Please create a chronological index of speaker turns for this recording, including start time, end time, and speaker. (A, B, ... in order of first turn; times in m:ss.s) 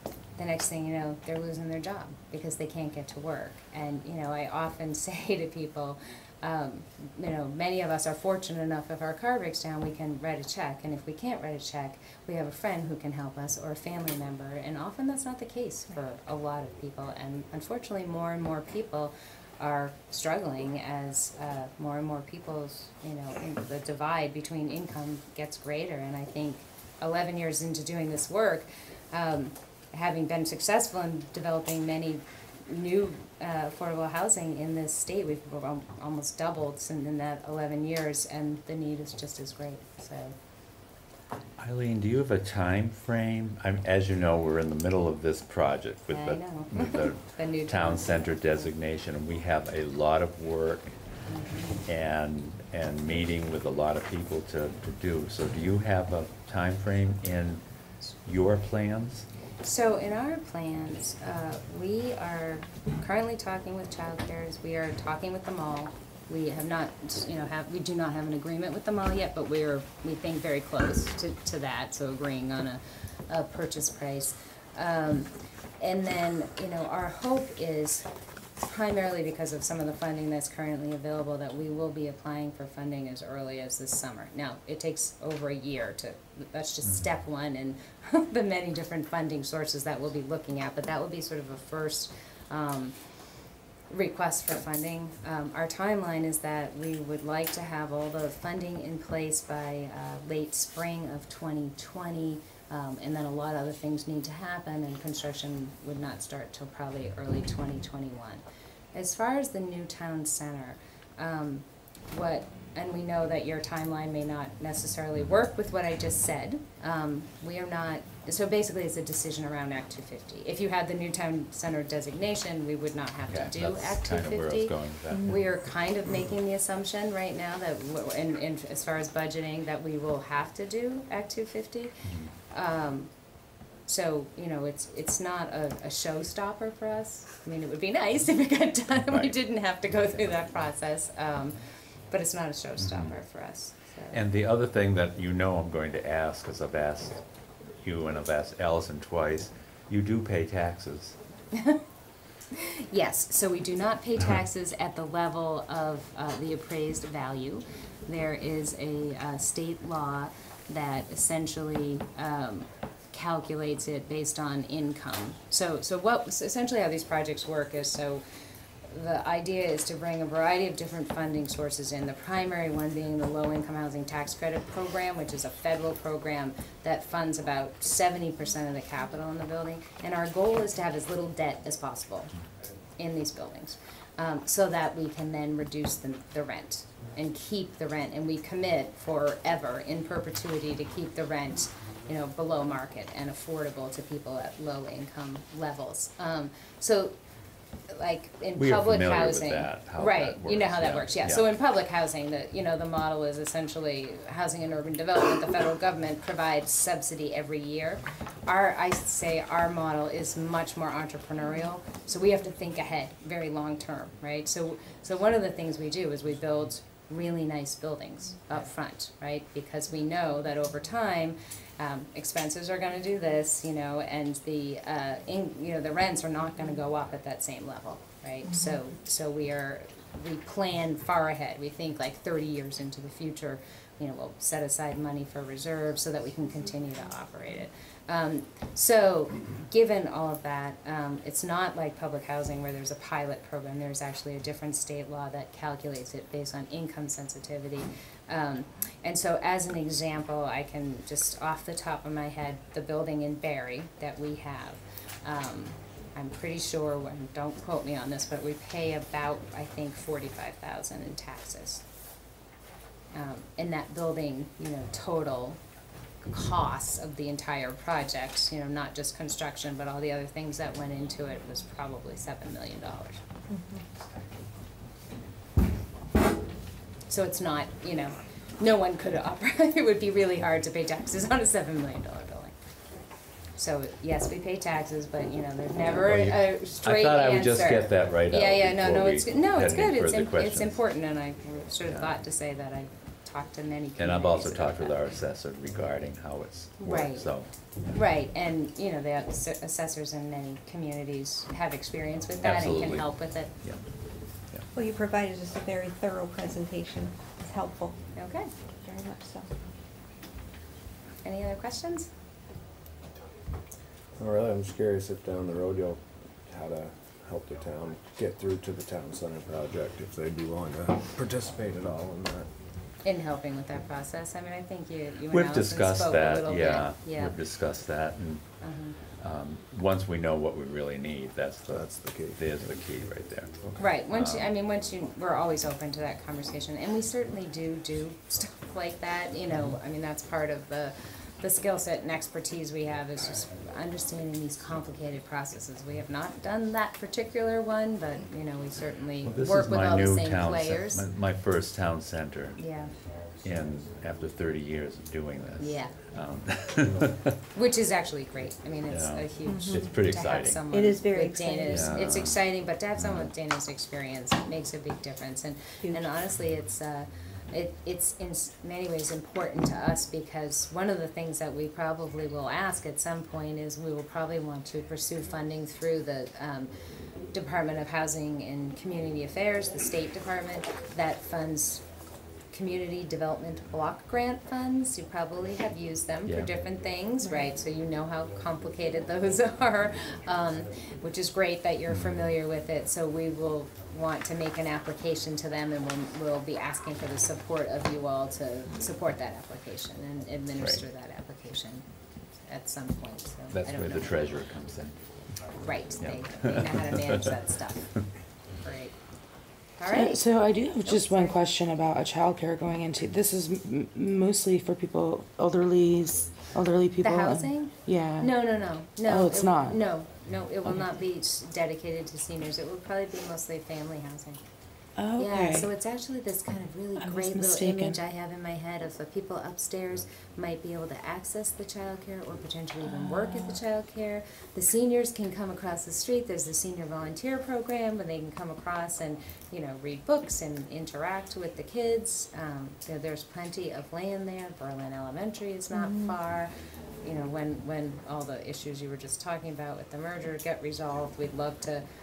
0:00.4-0:40.4 A
0:41.6-0:51.0 B
0:46.1-0:48.4 A
0:51.3-0:51.8 A
0:51.9-0:57.6 B
0:58.3-0:59.3 B
0:59.6-1:18.1 A
1:18.6-1:33.0 A
1:33.9-1:48.4 A
1:48.9-2:11.9 A
2:03.3-2:05.4 B
2:12.1-2:12.3 B
2:12.5-2:13.1 A
2:13.9-2:21.6 A
2:19.1-2:19.3 B
2:22.1-2:24.2 A
2:22.8-2:23.1 B
2:24.1-2:27.2 B
2:27.8-2:31.2 B
2:32.6-2:48.2 A
2:48.9-3:02.3 A
3:03.0-3:17.2 A
3:17.9-4:21.8 A
3:18.6-3:21.5 B
3:48.5-3:48.8 C
4:23.1-4:25.6 A
4:26.3-4:33.2 A
4:33.5-4:33.8 C
4:37.1-4:42.5 A
4:43.6-4:54.9 A
4:45.8-4:50.8 B
4:51.8-4:52.1 B
4:54.0-4:57.5 B
4:56.8-4:57.4 A
4:57.9-5:03.5 A
5:02.4-5:03.1 B
5:04.7-5:08.0 C
5:08.2-5:08.5 A
5:08.8-5:09.5 C
5:11.2-5:12.1 A
5:14.2-5:22.5 D
5:23.0-5:27.4 A
5:25.3-5:28.4 B
5:28.6-5:29.0 A
5:29.2-5:34.5 B
5:31.7-5:32.9 D
5:33.8-5:51.0 A
5:49.2-5:52.6 B
5:52.6-5:52.9 A
5:53.4-5:57.3 B
5:55.6-5:56.0 A
5:57.5-6:16.7 A
5:58.9-6:00.6 B
5:59.5-5:59.8 C
6:00.7-6:02.1 C
6:01.7-6:02.4 B
6:03.0-6:03.3 B
6:17.3-6:21.8 A
6:22.5-6:41.8 A
6:26.3-6:26.5 B
6:31.9-6:32.3 B
6:42.5-6:44.2 A
6:43.5-6:45.0 B
6:45.6-6:48.0 A
6:46.0-6:47.1 B
6:48.6-6:48.9 A
6:49.8-6:50.3 A
6:49.9-6:58.3 E
6:50.8-6:51.4 A
6:57.0-7:04.4 A
6:59.0-6:59.8 E
7:05.0-7:05.7 E
7:05.2-7:26.5 A
7:07.0-7:08.0 E
7:25.7-7:26.1 E
7:27.0-7:31.8 A